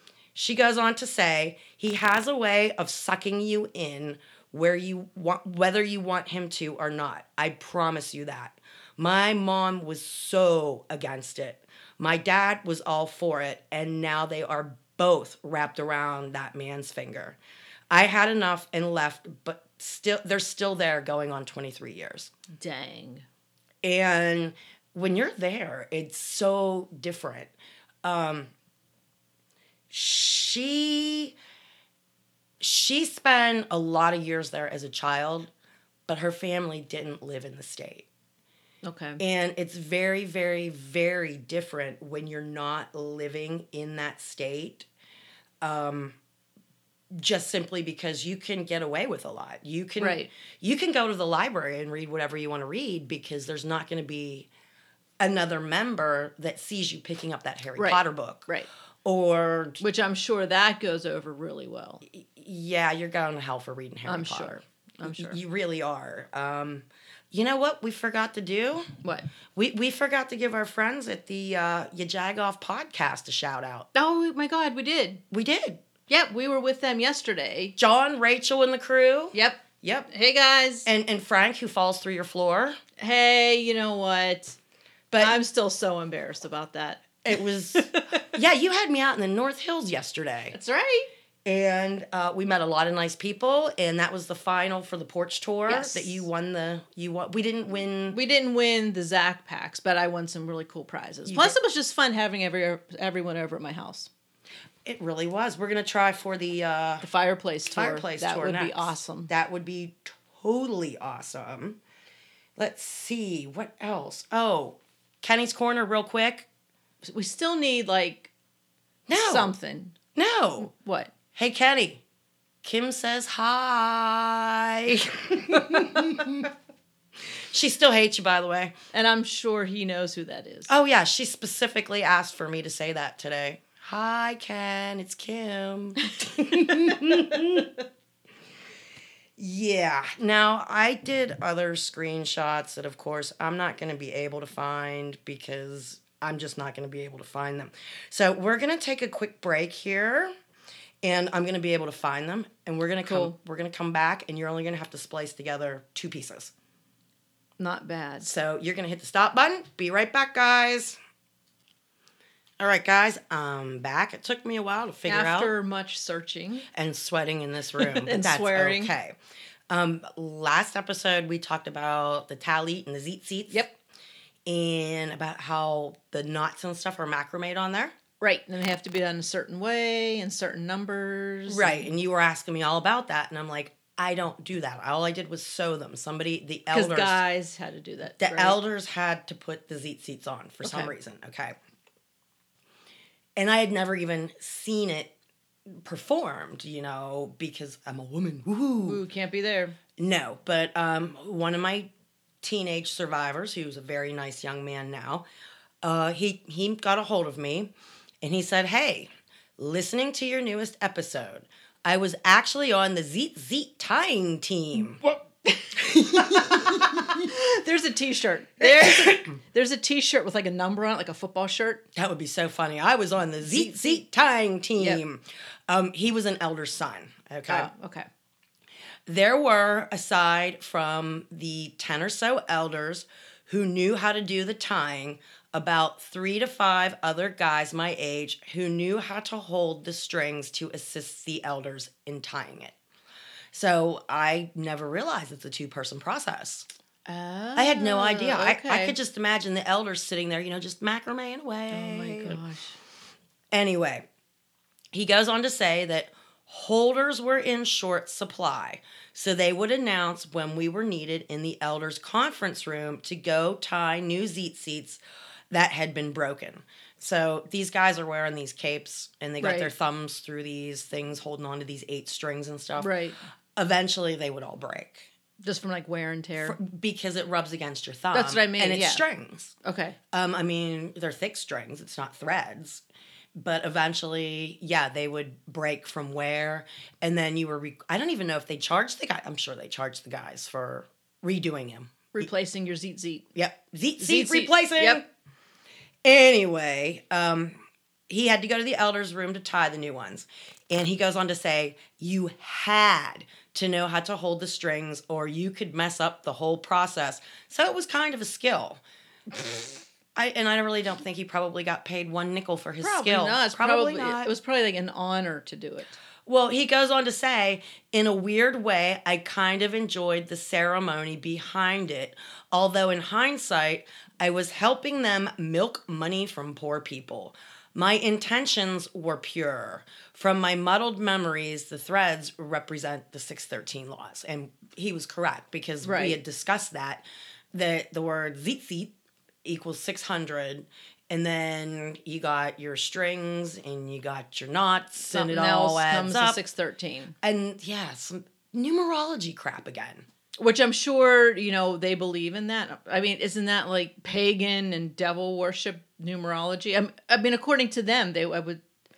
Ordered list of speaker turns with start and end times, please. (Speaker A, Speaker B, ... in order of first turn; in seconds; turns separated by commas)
Speaker A: 0.3-17.4, Speaker A: 17.9-22.3, Speaker B: 22.5-23.2, Speaker A: 23.8-27.5, Speaker A: 28.0-28.5, Speaker A: 29.9-31.3, Speaker A: 32.6-35.5, Speaker A: 36.1-38.1, Speaker B: 38.8-39.2, Speaker A: 39.2-44.9, Speaker A: 45.6-46.1, Speaker A: 47.1-54.5, Speaker B: 50.0-50.3, Speaker A: 55.2-58.5, Speaker B: 57.8-58.7, Speaker A: 59.0-59.8, Speaker B: 59.8-62.0, Speaker A: 62.1-68.9, Speaker B: 64.0-65.4, Speaker A: 69.5-73.9, Speaker B: 73.9-75.2, Speaker A: 75.3-75.8, Speaker B: 76.1-77.7, Speaker A: 77.8-80.1, Speaker B: 79.3-80.9, Speaker A: 80.8-82.8, Speaker B: 83.0-84.6, Speaker A: 85.1-85.4, Speaker B: 85.2-88.2, Speaker A: 87.2-90.5, Speaker B: 90.5-91.1, Speaker A: 91.4-98.2, Speaker B: 95.7-96.3, Speaker B: 98.1-104.1, Speaker A: 101.2-101.5, Speaker A: 104.8-107.1, Speaker B: 107.0-109.3, Speaker A: 107.7-111.8, Speaker A: 112.6-116.5, Speaker B: 117.0-118.3, Speaker A: 119.1-119.5, Speaker B: 119.2-120.0, Speaker A: 120.1-120.7, Speaker B: 120.6-121.1, Speaker A: 121.3-122.0, Speaker A: 122.6-126.5, Speaker A: 127.5-128.7, Speaker B: 128.9-130.7, Speaker A: 130.7-137.7, Speaker B: 136.5-137.4, Speaker A: 139.4-150.3, Speaker A: 151.0-156.5, Speaker B: 153.1-153.3, Speaker B: 157.6-158.3, Speaker A: 158.2-161.0, Speaker A: 162.6-165.5, Speaker B: 165.1-166.7, Speaker A: 166.7-169.1, Speaker B: 167.8-168.9, Speaker A: 169.7-173.7, Speaker A: 174.5-177.9, Speaker B: 178.2-181.9, Speaker A: 181.5-187.2, Speaker B: 186.7-188.6, Speaker A: 188.2-191.5, Speaker B: 190.6-190.9, Speaker A: 193.4-195.1, Speaker A: 195.8-199.0, Speaker B: 198.8-199.8, Speaker A: 200.0-201.9, Speaker A: 202.4-205.2, Speaker A: 205.8-207.7, Speaker A: 208.2-215.0, Speaker A: 215.7-217.3, Speaker B: 216.2-221.8, Speaker A: 218.6-219.4, Speaker A: 221.9-227.7, Speaker B: 223.4-224.0, Speaker B: 227.5-228.1, Speaker A: 229.1-242.7, Speaker A: 243.5-246.7, Speaker B: 247.1-248.9, Speaker A: 247.6-252.4, Speaker B: 251.7-252.8, Speaker A: 253.5-254.0, Speaker A: 254.9-272.9, Speaker B: 269.4-269.7, Speaker B: 272.8-273.2, Speaker A: 273.6-275.1, Speaker B: 275.4-276.6, Speaker A: 276.4-279.5, Speaker B: 278.1-279.0, Speaker B: 279.6-280.0, Speaker A: 280.1-282.8, Speaker A: 283.4-292.2, Speaker B: 292.1-293.3, Speaker A: 293.3-295.0, Speaker B: 294.0-295.0, Speaker A: 296.0-297.6, Speaker A: 298.1-308.8, Speaker A: 309.3-314.3, Speaker B: 312.8-316.0, Speaker A: 316.2-338.9, Speaker B: 335.8-336.2, Speaker A: 339.4-346.4, Speaker B: 345.1-347.1, Speaker A: 347.2-350.1, Speaker B: 350.4-358.6